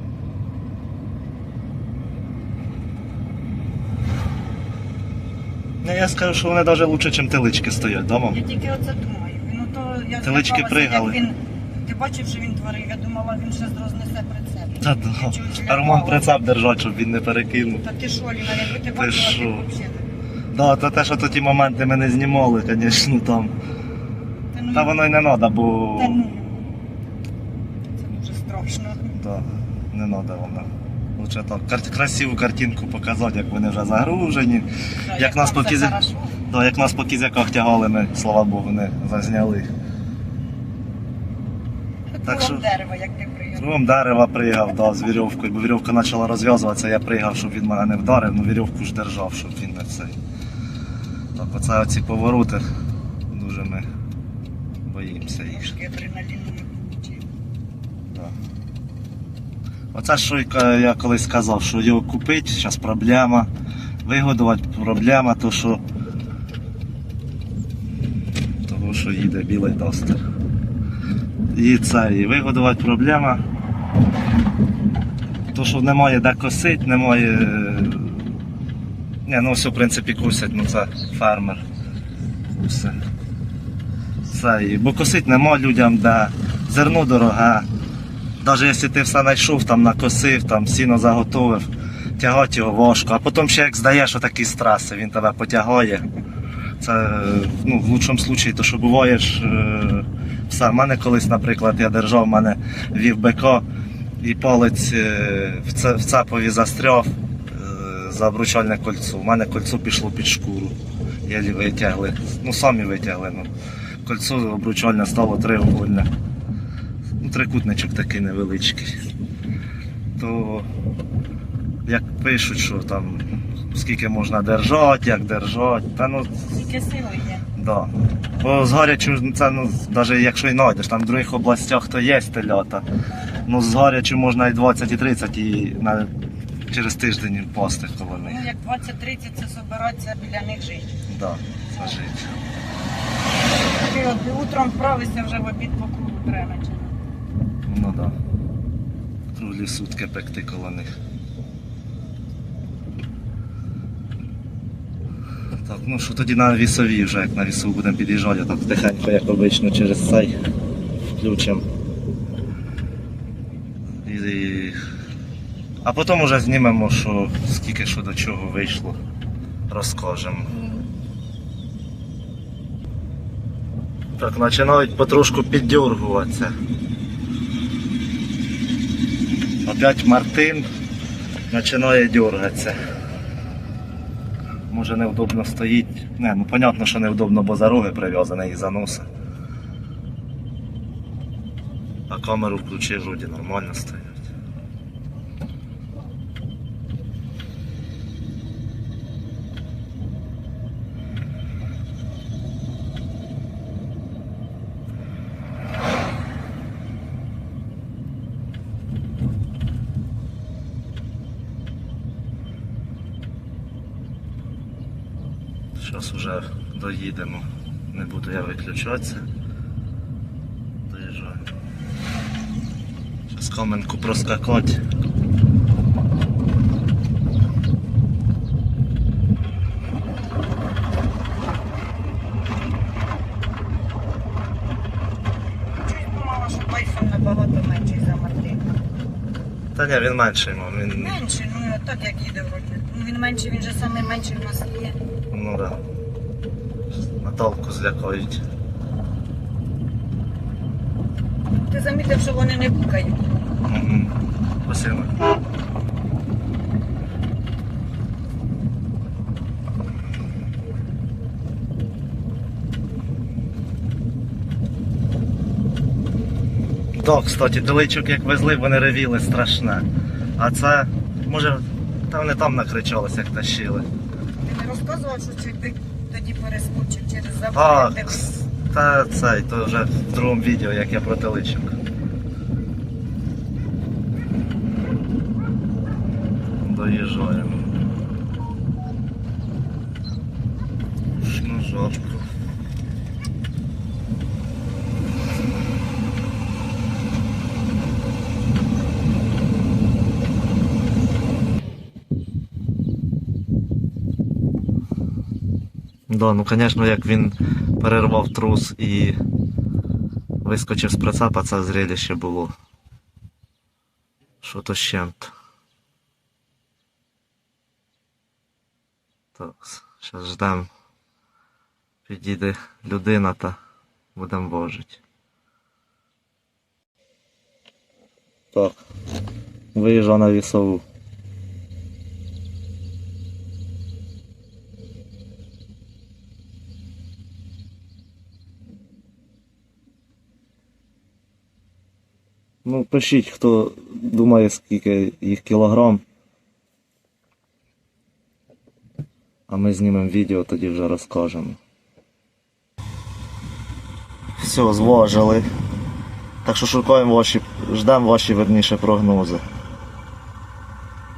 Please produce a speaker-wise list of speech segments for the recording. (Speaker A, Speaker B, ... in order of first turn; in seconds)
Speaker A: 5.8-8.4, 10.2-11.2, 14.8-17.8, 18.9-19.6, 20.5-23.5, 24.7-26.2, 29.1-39.7, 42.2-42.7, 43.6-50.1, 51.4-52.6, 53.3-53.9, 54.9-55.8, 59.9-63.5, 64.0-65.8, 68.6-70.2, 71.5-73.4, 75.5-78.3, 79.2-81.6, 82.5-83.1, 84.3-87.7, 88.4-96.1, 96.8-103.7, 104.2-113.5, 114.0-116.1, 117.2-119.0, 120.2-120.7, 121.9-126.5, 127.5-132.8, 133.5-136.1, 136.7-138.5, 141.1-142.3, 147.7-148.2, 149.3-150.9, 155.6-160.4, 161.2-161.7, 164.0-164.8, 165.8-169.0, 169.7-170.7, 174.2-176.5, 179.7-180.7, 181.5-182.8, 184.7-189.1, 192.1-194.2, 215.8-219.2, 220.9-221.4, 223.3-224.8, 239.8-241.2, 245.3-245.8, 247.1-248.4, 253.7-255.1, 266.9-269.9, 270.4-273.9, 277.5-281.8, 286.6-287.7, 291.1-292.3, 306.1-309.2, 310.4-312.5, 314.4-315.3, 319.4-320.7, 322.1-323.6, 324.1-325.0, 328.5-328.8, 329.7-330.8, 342.6-346.0, 349.5-351.6, 354.4-355.5, 356.4-359.4
Speaker B: 8.3-16.3, 17.8-20.1, 24.5-24.9, 25.9-26.7, 27.9-29.1, 35.1-36.4, 42.1-43.7, 55.5-57.3, 126.5-127.5, 138.2-141.0, 143.7-147.0, 235.8-238.7, 241.0-245.0, 251.7-253.3, 274.4-278.3